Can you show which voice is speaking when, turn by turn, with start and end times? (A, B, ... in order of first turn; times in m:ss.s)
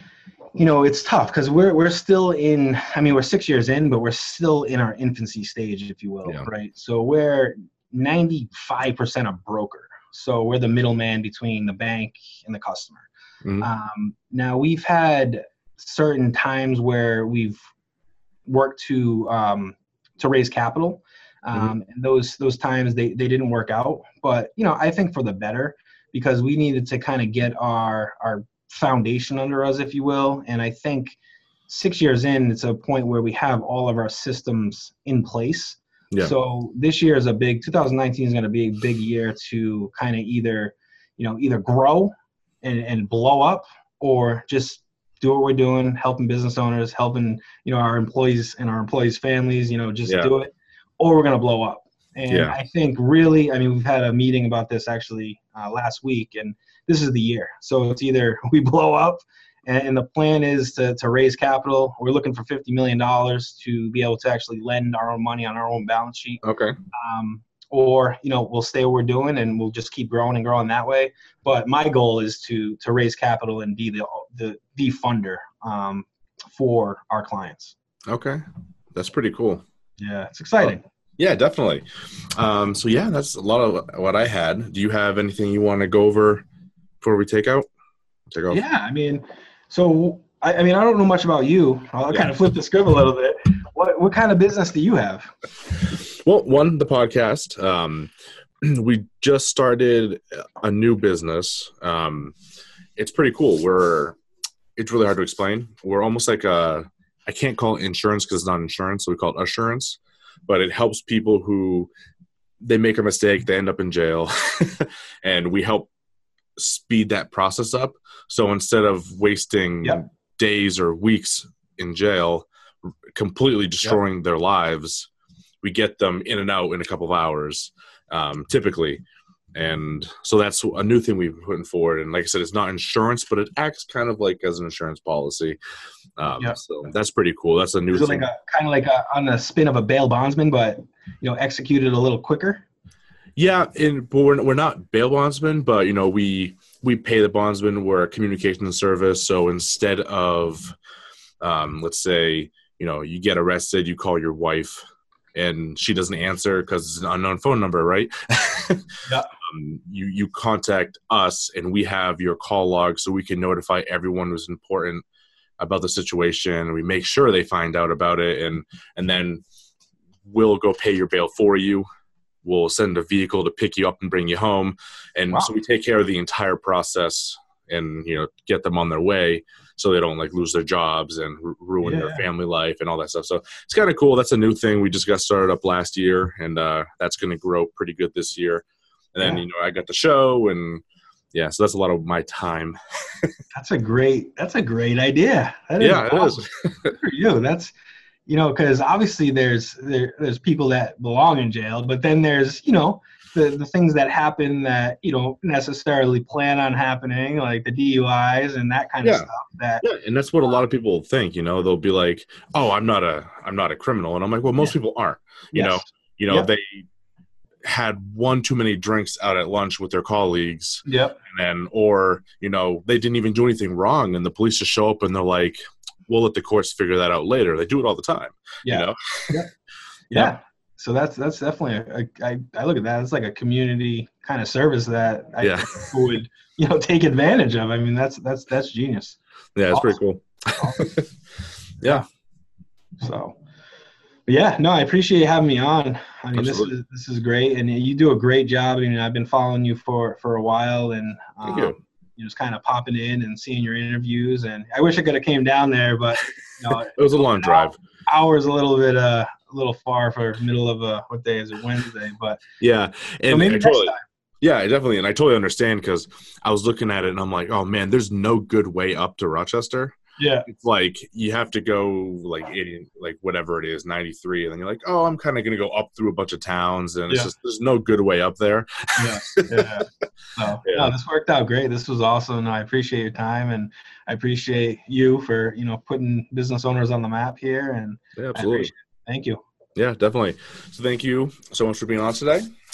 0:00.5-0:13.1 A
0:13.6-0:17.6 A
0:18.4-0:31.2 A
0:31.7-1:17.7 A
0:50.0-0:50.3 B
0:52.3-0:52.6 B
1:06.4-1:06.8 B
1:18.1-1:18.4 B
1:18.9-1:19.6 B
1:20.0-1:20.8 A
1:20.6-1:21.8 B
1:22.4-1:26.4 B
1:27.0-1:27.7 B
1:28.3-1:28.6 B
1:28.5-1:35.3 A
1:36.0-1:38.1 B
1:38.6-1:42.3 B
1:43.0-1:44.2 B
1:44.8-1:51.9 B
1:52.6-1:55.9 B
1:56.6-2:02.4 B
2:03.2-2:05.1 B
2:05.6-2:09.0 B
2:09.6-2:15.6 B
2:16.2-2:18.2 B
2:17.9-2:22.6 A
2:23.4-2:30.7 B
2:31.4-2:34.8 B
2:35.3-2:38.9 B
2:39.5-2:45.0 B
2:45.6-2:49.4 B
2:50.2-2:51.8 B
2:52.4-3:10.8 B
3:01.8-3:02.2 A
3:11.3-3:13.3 B
3:13.5-3:17.7 A
3:15.8-3:16.9 B
3:18.3-3:29.8 A
3:29.0-3:29.3 B
3:29.8-3:36.8 B
3:35.5-3:36.5 A
3:37.6-3:49.4 B
3:40.8-3:41.2 A
3:48.6-3:49.5 A
3:50.1-3:59.2 A
3:55.4-3:55.9 B
3:59.6-4:01.0 B
3:59.7-4:00.0 A
4:00.6-4:01.0 A
4:03.0-4:03.4 A
4:04.3-4:22.4 A
4:06.3-4:06.7 B
4:11.4-4:11.8 B
4:16.9-4:17.8 B
4:22.6-4:30.0 B
4:23.3-4:24.0 A
4:30.2-4:30.5 A
4:30.5-4:39.7 B
4:39.0-4:49.4 A
4:40.6-4:40.9 B
4:48.2-4:48.7 B
4:49.8-4:52.4 B